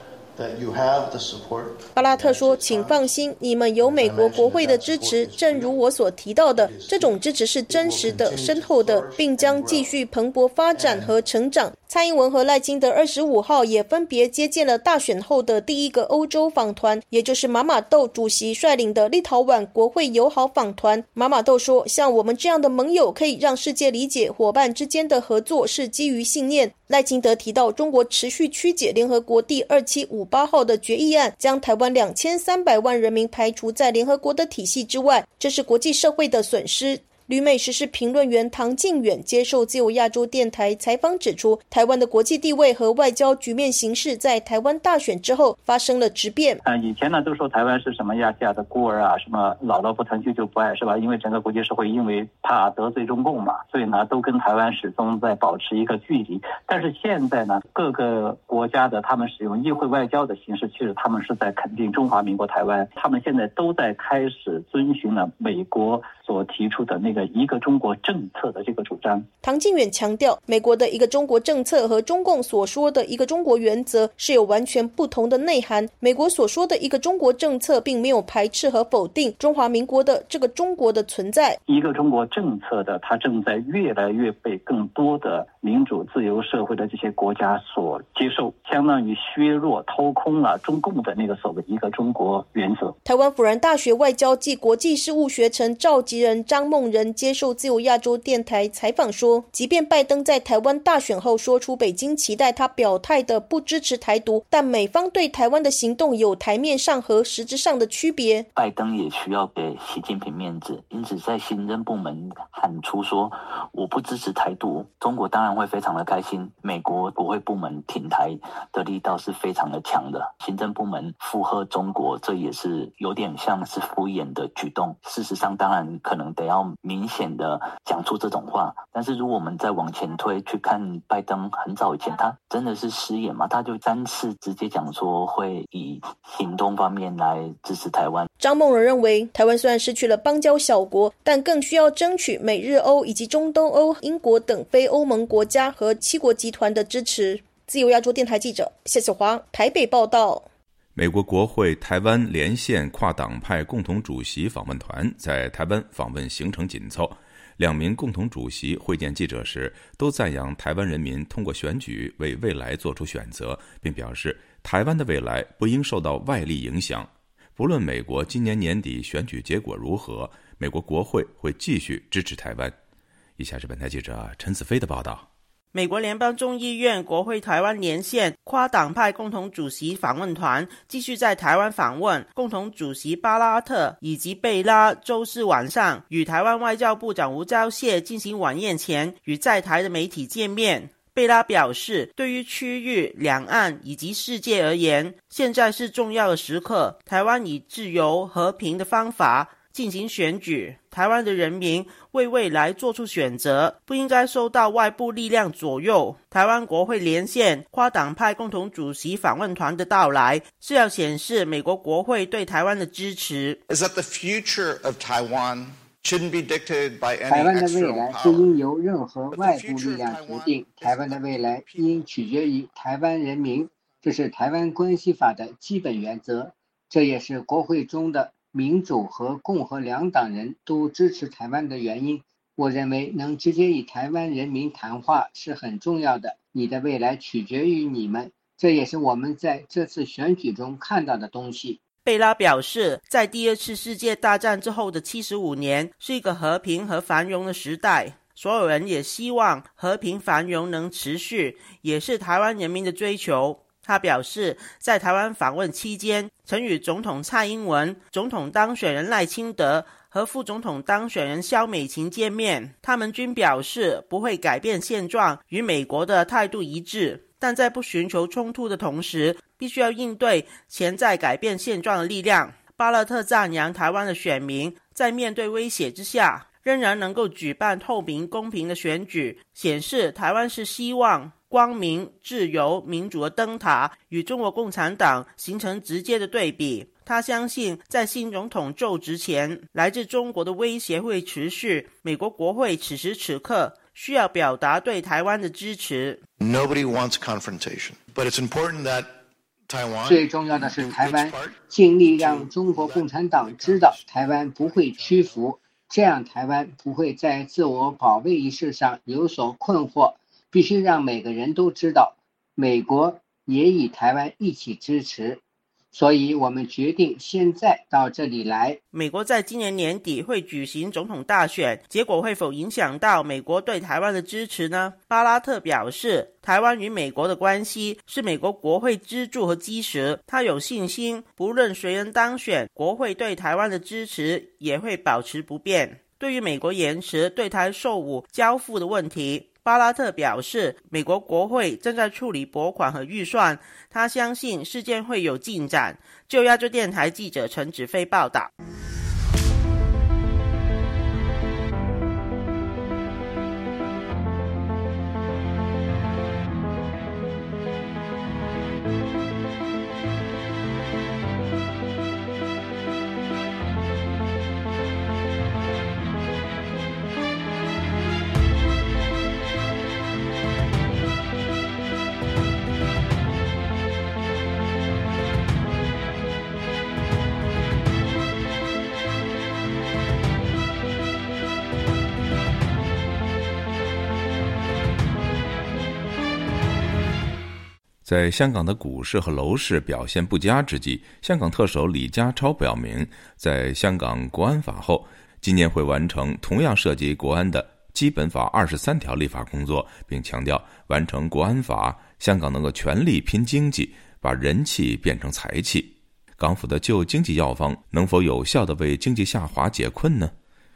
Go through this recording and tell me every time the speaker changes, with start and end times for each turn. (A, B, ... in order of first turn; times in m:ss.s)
0:00.3-0:03.2 A
0:01.9-0:46.6 B
0:03.8-0:05.8 A
0:06.6-0:10.0 A
0:10.7-0:11.2 A
0:46.6-1:09.2 C
1:09.4-1:21.6 B
1:21.7-1:32.9 C
1:33.0-1:48.5 B
1:48.5-2:18.3 D
2:18.4-2:30.4 B
2:30.9-2:52.7 E
2:53.4-2:55.2 E
2:55.7-3:33.6 F
3:33.7-3:38.5 A
3:37.3-4:01.8 G
3:39.3-3:42.0 A
4:02.0-4:56.2 F
4:56.4-5:01.6 A
5:00.0-5:15.4 G
5:02.2-5:02.8 A
5:15.9-5:18.8 G
5:18.9-5:48.5 F
6:28.0-6:50.3 E